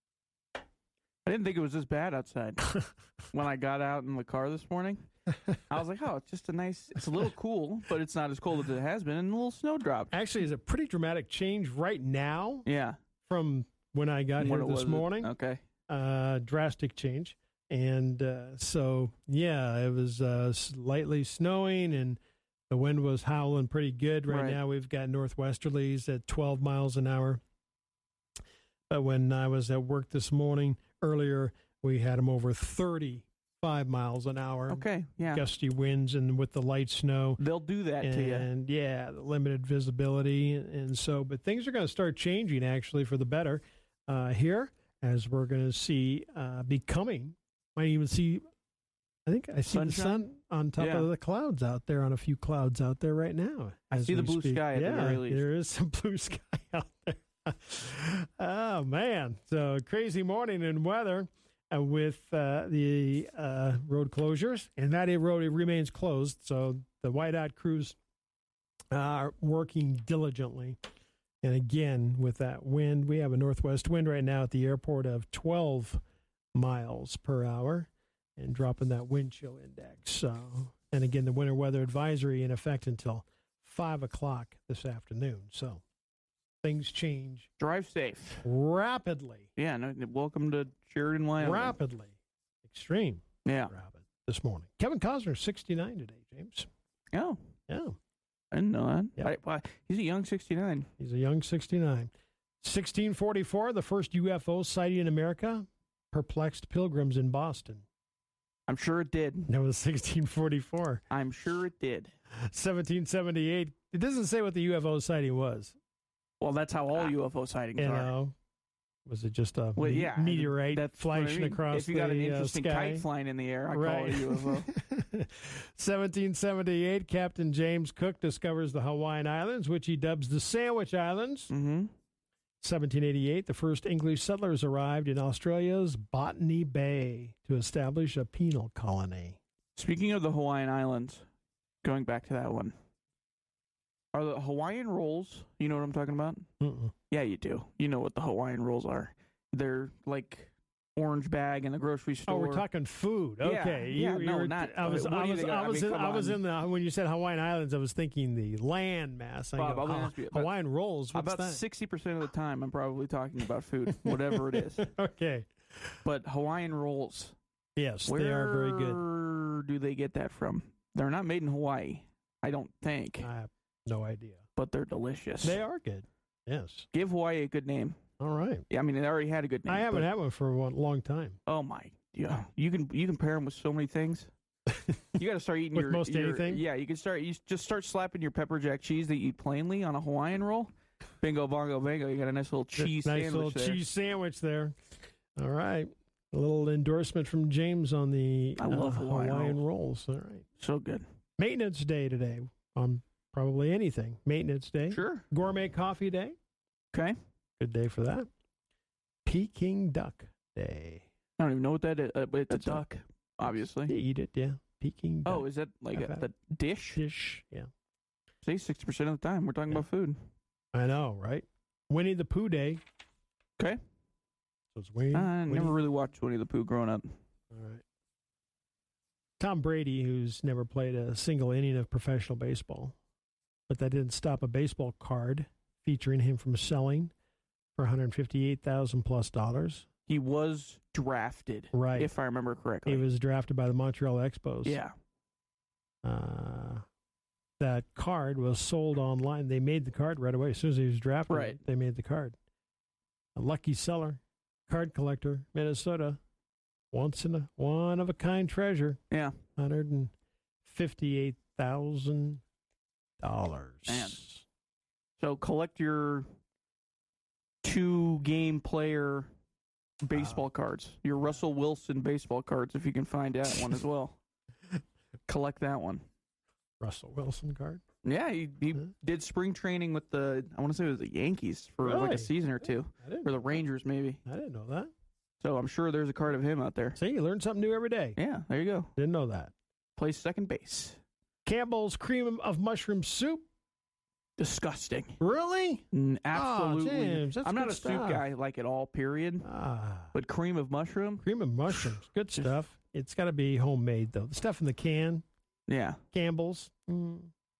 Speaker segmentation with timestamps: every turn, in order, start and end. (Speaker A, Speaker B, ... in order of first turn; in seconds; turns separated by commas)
Speaker A: 1.2-2.6, Speaker A: 3.3-5.0, Speaker A: 5.7-10.2, Speaker B: 10.1-12.7, Speaker A: 12.6-13.0, Speaker B: 13.2-15.3, Speaker A: 14.4-15.6, Speaker B: 15.9-22.2, Speaker B: 22.7-27.4, Speaker A: 24.3-24.6, Speaker B: 28.9-37.4, Speaker A: 34.7-35.5, Speaker A: 37.4-38.5, Speaker B: 38.0-48.4, Speaker B: 49.2-68.0, Speaker A: 49.6-51.1, Speaker A: 54.0-55.4, Speaker B: 68.9-70.8, Speaker B: 71.4-76.0, Speaker B: 76.5-85.8, Speaker B: 86.6-87.5, Speaker A: 87.6-88.4, Speaker B: 88.4-89.5, Speaker A: 89.5-91.8, Speaker B: 91.4-92.1, Speaker B: 92.7-96.7, Speaker A: 93.4-93.7, Speaker B: 97.7-97.9, Speaker A: 98.5-100.9, Speaker B: 101.0-102.1, Speaker B: 102.6-107.8, Speaker A: 108.7-109.5, Speaker B: 109.5-111.0, Speaker A: 111.1-112.1, Speaker B: 112.4-115.7, Speaker A: 116.4-118.1, Speaker B: 117.8-118.3, Speaker B: 119.0-123.0, Speaker A: 119.8-124.7, Speaker B: 123.7-131.5, Speaker A: 131.5-131.9, Speaker B: 132.6-139.4, Speaker A: 139.7-141.2, Speaker A: 141.8-142.7, Speaker A: 144.1-146.4, Speaker B: 146.6-146.9, Speaker A: 147.1-152.6, Speaker B: 152.3-161.6, Speaker A: 153.4-156.4, Speaker A: 159.6-160.5, Speaker A: 161.1-164.9, Speaker B: 163.9-165.5, Speaker A: 166.0-167.3, Speaker B: 167.8-169.0, Speaker A: 168.1-173.3, Speaker B: 173.2-174.4, Speaker A: 174.6-175.6, Speaker B: 175.4-176.9, Speaker A: 176.9-178.0, Speaker B: 178.2-178.6, Speaker A: 178.7-180.1, Speaker B: 179.7-181.4, Speaker A: 181.4-184.3, Speaker B: 184.7-185.0, Speaker A: 185.2-193.8, Speaker B: 185.7-186.6, Speaker B: 192.8-194.7, Speaker B: 195.3-200.5, Speaker A: 198.6-199.6, Speaker A: 200.6-201.0, Speaker B: 201.4-206.3, Speaker A: 204.9-205.3, Speaker B: 207.6-208.3, Speaker B: 209.2-211.1, Speaker A: 211.4-213.9, Speaker B: 212.5-212.8, Speaker B: 213.5-216.3, Speaker A: 215.2-217.0, Speaker B: 216.9-217.7, Speaker A: 218.4-220.2, Speaker B: 220.7-222.8, Speaker B: 224.7-225.8, Speaker A: 225.1-227.0, Speaker B: 227.5-227.8, Speaker B: 229.4-232.9, Speaker B: 233.7-237.1, Speaker B: 237.8-239.9, Speaker A: 240.1-243.0, Speaker B: 241.7-242.1, Speaker B: 242.8-244.8, Speaker A: 244.6-244.9, Speaker B: 246.0-246.8, Speaker B: 247.6-252.3, Speaker A: 251.3-251.6, Speaker B: 253.3-256.2, Speaker B: 256.9-259.0, Speaker A: 259.1-259.4, Speaker B: 259.6-260.1, Speaker B: 260.6-262.4, Speaker B: 263.2-264.4, Speaker A: 263.9-264.3, Speaker A: 265.2-266.2, Speaker A: 267.6-269.3, Speaker A: 270.0-274.2, Speaker B: 270.1-270.5, Speaker A: 275.3-276.0, Speaker B: 276.8-277.8, Speaker A: 278.0-284.2, Speaker B: 281.8-283.6, Speaker B: 284.2-284.9, Speaker A: 285.4-287.0, Speaker B: 287.0-288.2, Speaker A: 288.2-288.9, Speaker B: 289.0-289.5, Speaker A: 289.9-291.0, Speaker B: 291.4-293.4, Speaker A: 294.4-295.2, Speaker B: 295.2-298.2, Speaker A: 295.9-299.4, Speaker B: 299.4-300.1, Speaker A: 300.1-302.5, Speaker B: 301.2-305.2, Speaker A: 305.7-306.0, Speaker B: 306.1-307.3